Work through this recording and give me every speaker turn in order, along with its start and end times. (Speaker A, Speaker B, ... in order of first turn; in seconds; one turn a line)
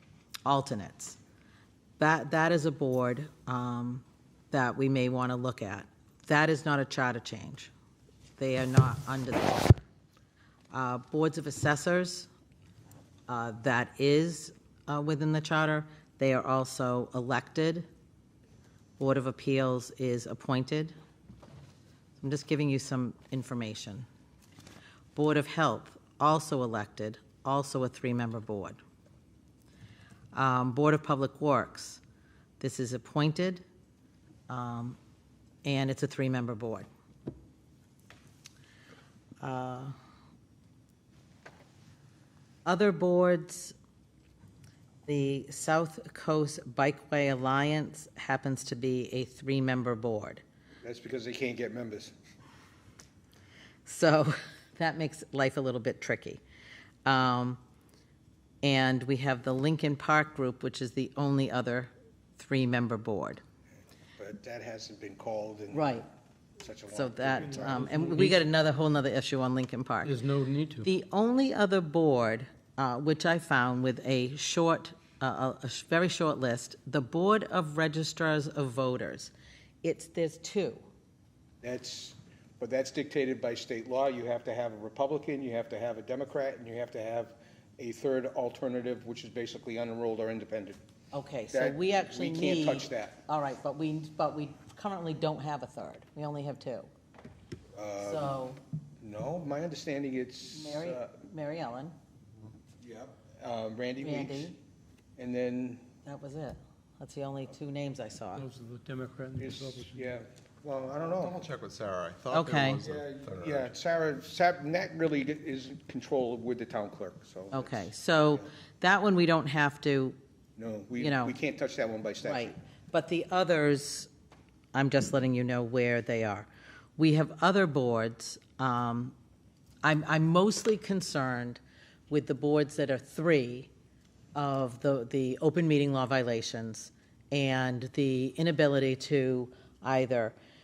Speaker A: 0.4-1.2
Speaker A: 2.0-7.7
Speaker A: 8.4-9.8
Speaker A: 10.7-12.3
Speaker A: 13.3-17.9
Speaker A: 19.0-20.9
Speaker A: 22.2-24.1
Speaker A: 25.1-28.8
Speaker A: 30.3-32.0
Speaker A: 32.6-33.6
Speaker A: 34.5-35.0
Speaker A: 35.6-36.9
Speaker A: 39.4-39.9
Speaker A: 42.6-43.7
Speaker A: 45.0-50.4
Speaker B: 50.8-52.1
Speaker A: 53.9-56.4
Speaker A: 57.0-57.6
Speaker A: 58.6-63.4
Speaker B: 64.2-66.0
Speaker A: 65.7-66.0
Speaker B: 66.6-68.2
Speaker A: 66.9-70.2
Speaker C: 67.6-68.4
Speaker C: 70.0-70.9
Speaker A: 70.8-79.3
Speaker A: 79.8-80.8
Speaker B: 81.6-90.8
Speaker A: 91.1-96.9
Speaker B: 91.5-93.2
Speaker B: 97.7-98.3
Speaker A: 98.0-98.6
Speaker B: 99.0-101.1
Speaker A: 100.5-101.9
Speaker B: 102.8-104.5
Speaker A: 104.0-104.6
Speaker B: 105.2-105.8
Speaker A: 106.0-108.4
Speaker C: 108.3-110.0
Speaker B: 109.4-111.4
Speaker D: 111.0-113.7
Speaker A: 112.3-112.8
Speaker B: 112.7-118.5
Speaker A: 117.5-120.2
Speaker B: 120.6-122.5
Speaker A: 121.0-121.3
Speaker A: 122.2-124.1
Speaker A: 124.7-129.1
Speaker A: 129.8-133.7
Speaker A: 134.3-140.3